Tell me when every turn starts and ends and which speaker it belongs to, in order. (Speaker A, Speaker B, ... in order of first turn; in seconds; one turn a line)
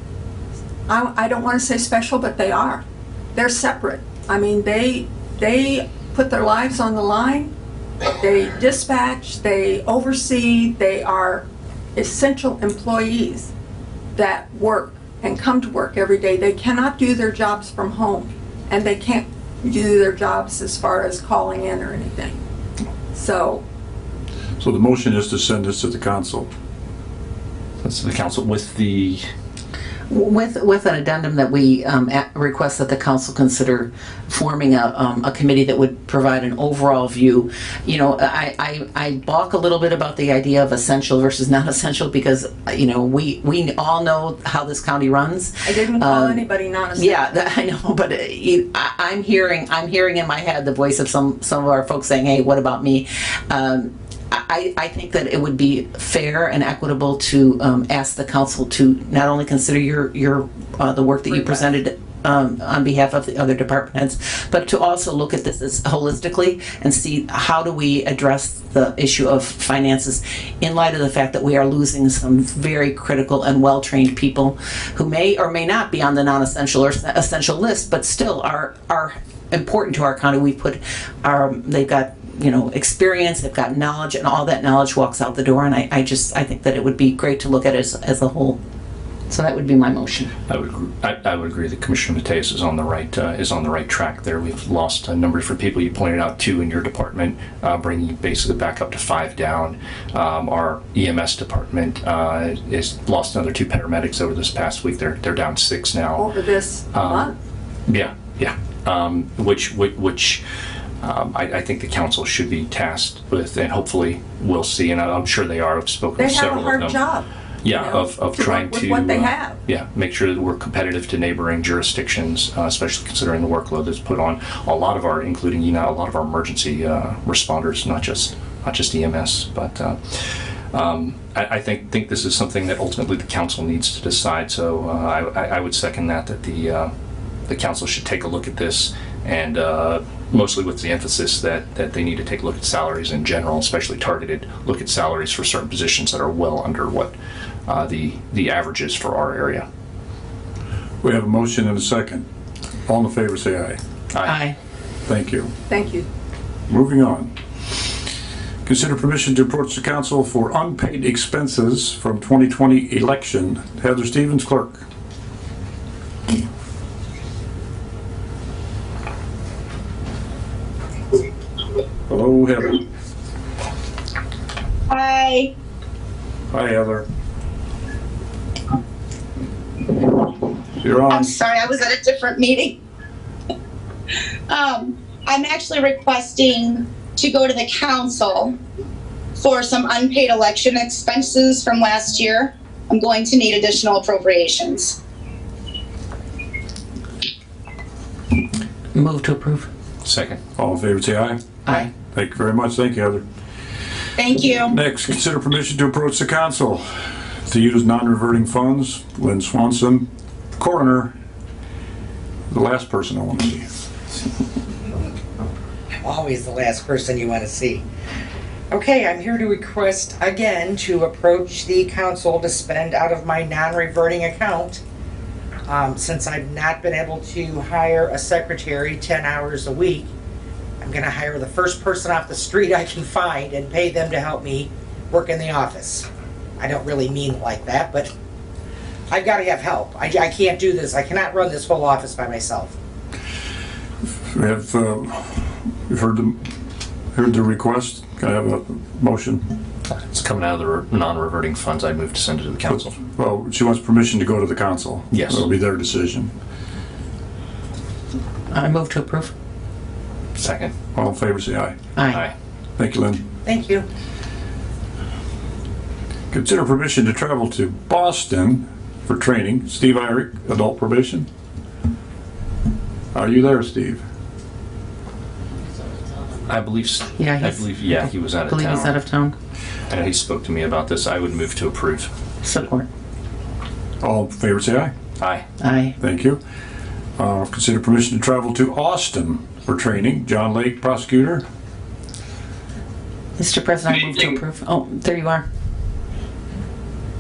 Speaker A: 0.9-2.8
Speaker A: 3.4-7.5
Speaker A: 8.2-13.5
Speaker A: 14.1-22.4
Speaker A: 23.1-23.6
Speaker B: 24.6-26.5
Speaker C: 27.8-29.2
Speaker D: 30.1-88.6
Speaker A: 45.6-47.4
Speaker D: 89.3-90.3
Speaker C: 90.5-106.3
Speaker A: 106.2-107.4
Speaker C: 106.9-107.3
Speaker C: 107.9-110.4
Speaker C: 111.0-117.0
Speaker A: 116.2-119.6
Speaker C: 117.6-136.9
Speaker C: 137.5-147.1
Speaker C: 147.7-149.7
Speaker B: 151.0-152.2
Speaker B: 152.9-153.8
Speaker D: 154.2-154.6
Speaker B: 155.1-155.5
Speaker A: 155.7-156.1
Speaker B: 156.7-157.3
Speaker B: 158.7-164.8
Speaker B: 172.1-172.8
Speaker E: 174.9-175.5
Speaker B: 176.5-177.1
Speaker B: 180.8-181.3
Speaker E: 181.1-182.8
Speaker E: 184.5-188.6
Speaker E: 189.4-195.0
Speaker D: 198.9-199.7
Speaker C: 200.1-200.4
Speaker B: 200.6-203.2
Speaker E: 204.2-204.8
Speaker B: 204.7-206.8
Speaker B: 207.5-211.1
Speaker B: 212.5-213.7
Speaker F: 216.0-217.8
Speaker F: 218.7-224.8
Speaker F: 225.7-230.1
Speaker F: 230.8-236.1
Speaker F: 236.6-238.1
Speaker F: 239.1-242.7
Speaker B: 244.3-246.4
Speaker B: 247.1-249.5
Speaker C: 249.9-252.9
Speaker B: 252.7-256.3
Speaker C: 255.1-255.5
Speaker D: 258.5-259.3
Speaker C: 260.4-260.7
Speaker B: 260.9-261.8
Speaker D: 262.0-262.2
Speaker B: 262.8-263.2
Speaker F: 263.4-263.9
Speaker B: 266.3-271.3
Speaker B: 273.1-274.0
Speaker C: 276.5-279.0
Speaker D: 277.2-277.7
Speaker D: 278.5-279.4
Speaker C: 279.9-282.1
Speaker D: 282.4-282.9
Speaker B: 284.0-284.9
Speaker C: 285.2-285.4
Speaker D: 285.6-286.0
Speaker B: 286.0-286.4
Speaker B: 287.2-291.4
Speaker D: 293.4-295.4